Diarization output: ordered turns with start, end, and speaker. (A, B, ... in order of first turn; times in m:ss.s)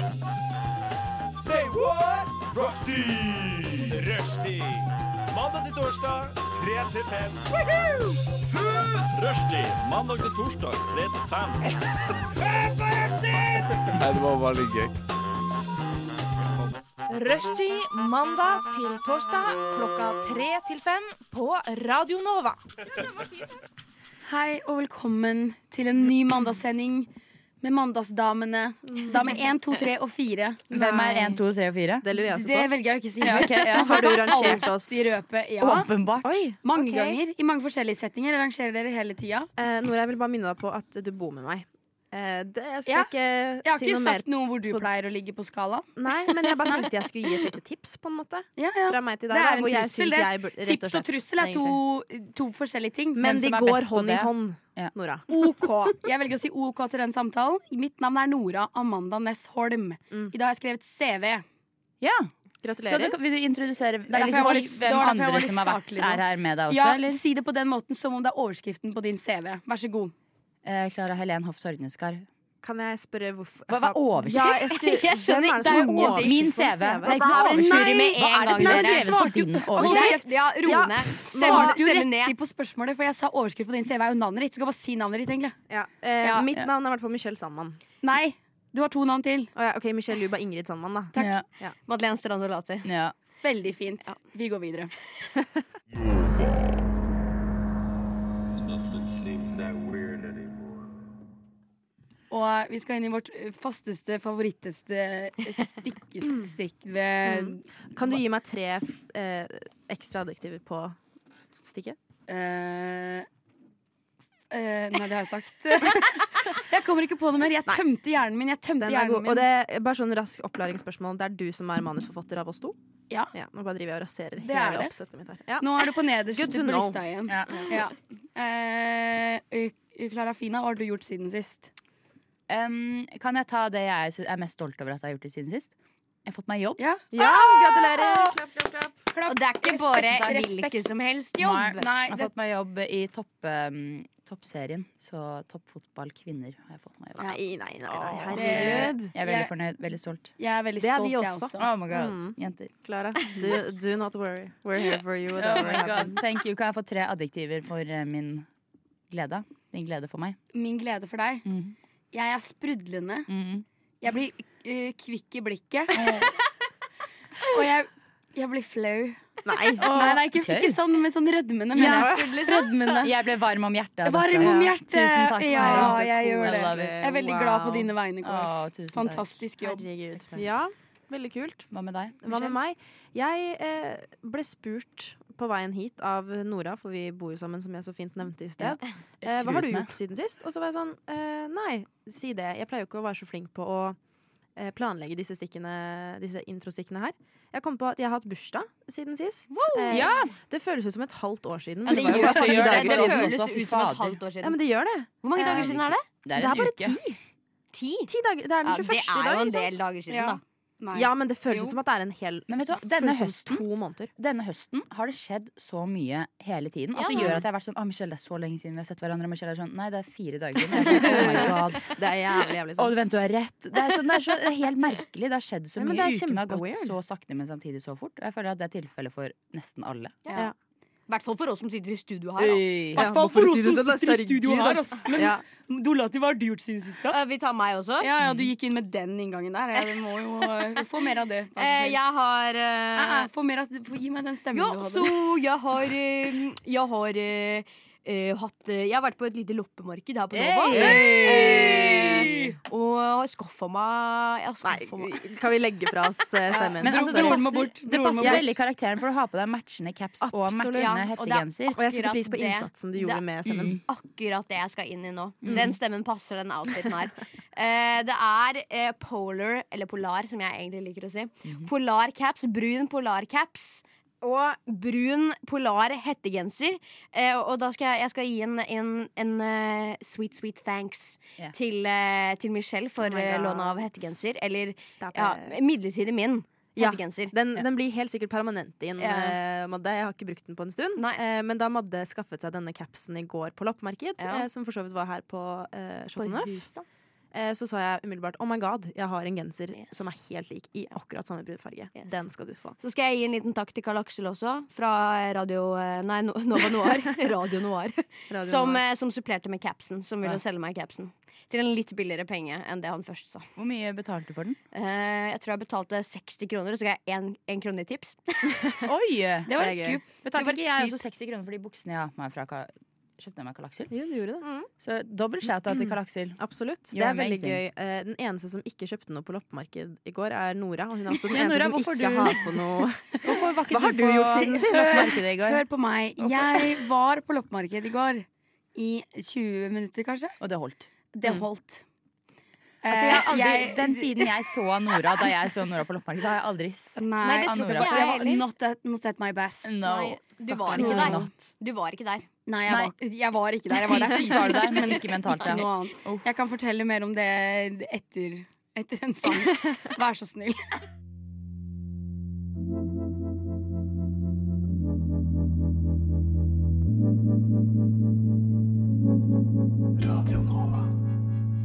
0:01.4-0:11.6 A
0:12.5-0:14.9 A
0:17.1-0:22.6 B
0:24.2-0:27.1 C
0:27.6-0:30.6 C
0:28.9-0:29.4 D
0:30.7-0:31.4 D
0:30.7-0:32.1 E
0:32.0-0:32.7 D
0:32.1-0:35.9 C
0:33.2-0:34.5 E
0:33.5-0:35.2 D
0:35.6-0:36.5 E
0:36.2-0:37.2 D
0:36.6-0:39.5 C
0:39.6-0:44.8 D
0:43.6-0:45.9 C
0:46.0-0:51.8 D
0:48.6-0:53.3 C
0:53.1-0:55.3 D
0:53.2-0:54.9 E
0:55.3-1:01.4 C
1:02.0-1:07.2 E
1:02.6-1:03.2 D
1:04.1-1:10.1 C
1:04.2-1:04.6 D
1:10.6-1:12.3 E
1:12.6-1:17.2 D
1:13.7-1:14.6 E
1:14.3-1:16.4 F
1:15.7-1:20.2 E
1:17.0-1:19.2 F
1:17.3-1:20.3 C
1:19.8-1:22.3 F
1:20.6-1:21.8 D
1:21.3-1:25.6 C
1:25.7-1:27.8 D
1:28.0-1:29.5 C
1:29.6-1:31.7 D
1:31.1-1:31.4 C
1:31.1-1:31.4 E
1:31.9-1:32.9 F
1:32.8-1:33.1 E
1:33.4-1:34.9 C
1:38.6-1:40.9 A
1:42.3-1:48.2 C
1:46.2-1:46.5 D
1:47.2-1:50.9 D
1:51.6-1:52.0 D
1:52.3-1:53.3 C
1:54.5-1:59.5 C
1:58.8-2:02.8 D
2:03.3-2:07.0 D
2:04.4-2:04.9 C
2:05.6-2:11.7 C
2:07.3-2:07.7 E
2:12.5-2:15.7 E
2:16.2-2:16.8 E
2:16.8-2:18.4 C
2:17.1-2:18.9 D
2:19.1-2:21.0 C
2:19.3-2:21.9 F
2:20.0-2:20.4 E
2:21.4-2:27.3 E
2:21.8-2:22.3 C
2:27.2-2:29.1 D
2:27.9-2:30.3 E
2:28.3-2:29.5 C
2:30.4-2:31.7 C
2:30.8-2:36.2 D
2:31.6-2:32.7 E
2:33.3-2:33.6 E
2:35.3-2:38.5 E
2:39.1-2:40.4 E
2:40.5-2:41.4 C
2:41.4-2:41.7 E
2:42.1-2:43.3 C
2:43.3-2:43.6 E
2:44.0-2:46.4 C
2:46.0-2:46.3 E
2:47.5-2:49.2 C
2:49.4-2:50.2 D
2:49.8-2:50.8 E
2:49.8-2:52.2 C
2:51.7-2:57.2 E
2:51.8-2:52.5 D
2:51.8-2:53.0 F
2:54.0-2:59.9 C
2:54.4-2:54.7 D
2:55.5-2:57.9 D
2:58.2-2:59.2 E
2:59.6-3:01.7 D
3:01.7-3:02.5 E
3:02.2-3:14.0 D
3:08.6-3:09.9 E
3:14.6-3:23.3 D
3:19.5-3:20.2 F
3:19.9-3:20.3 E
3:21.8-3:24.2 E
3:21.9-3:22.5 C
3:22.0-3:24.6 F
3:24.4-3:25.1 D
3:25.2-3:26.0 F
3:25.3-3:27.0 E
3:26.3-3:27.2 D
3:27.7-3:28.1 F
3:28.1-3:29.8 D
3:28.6-3:30.4 F
3:30.1-3:31.7 C
3:30.9-3:34.1 D
3:32.5-3:33.6 E
3:34.2-3:41.9 E
3:37.0-3:37.4 F
3:37.2-3:37.4 D
3:40.7-3:43.1 D
3:42.8-3:50.2 E
3:45.8-3:47.0 D
3:50.2-3:50.5 F
3:51.1-3:52.6 F
3:52.4-3:53.1 E
3:52.9-3:55.4 D
3:52.9-3:57.2 C
3:57.1-3:58.1 F
3:58.0-4:02.0 C
3:58.2-3:58.5 E
4:01.6-4:03.3 F
4:02.9-4:05.3 C
4:04.5-4:15.2 F
4:10.3-4:12.3 E
4:10.7-4:12.1 D
4:11.1-4:12.5 C
4:14.6-4:17.4 D
4:16.5-4:18.5 C
4:16.8-4:21.8 E
4:20.2-4:21.2 D
4:20.8-4:23.2 F
4:21.7-4:23.8 D
4:23.4-4:23.8 E
4:23.8-4:47.3 F
4:25.4-4:25.8 E
4:31.4-4:31.7 E
4:43.0-4:44.1 D
4:44.9-4:45.6 D
4:46.8-4:56.7 D
4:49.0-4:49.4 F
4:56.2-4:56.8 F
4:57.3-5:02.8 D
4:59.7-5:00.1 F
5:02.8-5:13.5 F
5:08.3-5:08.8 D
5:13.6-5:14.6 E
5:14.7-5:18.6 F
5:18.8-5:19.5 E
5:19.4-5:20.0 C
5:19.6-5:20.0 D
5:20.2-5:23.9 E
5:20.3-5:21.0 F
5:23.9-5:24.7 D
5:24.8-5:26.4 E
5:25.7-5:35.2 D
5:26.9-5:27.6 E
5:31.3-5:35.6 E
5:34.3-5:40.4 C
5:36.2-5:36.8 D
5:40.4-5:40.9 E
5:41.1-5:41.8 C
5:42.8-5:44.4 C
5:42.9-5:48.2 E
5:43.0-5:43.3 D
5:47.0-5:50.1 C
5:47.2-5:48.4 F
5:49.6-5:51.3 E
5:49.8-5:52.3 F
5:50.6-5:51.3 C
5:52.4-6:00.7 C
5:52.7-5:52.9 E
5:53.9-5:56.3 E
5:53.9-5:54.6 D
6:10.1-6:10.8 A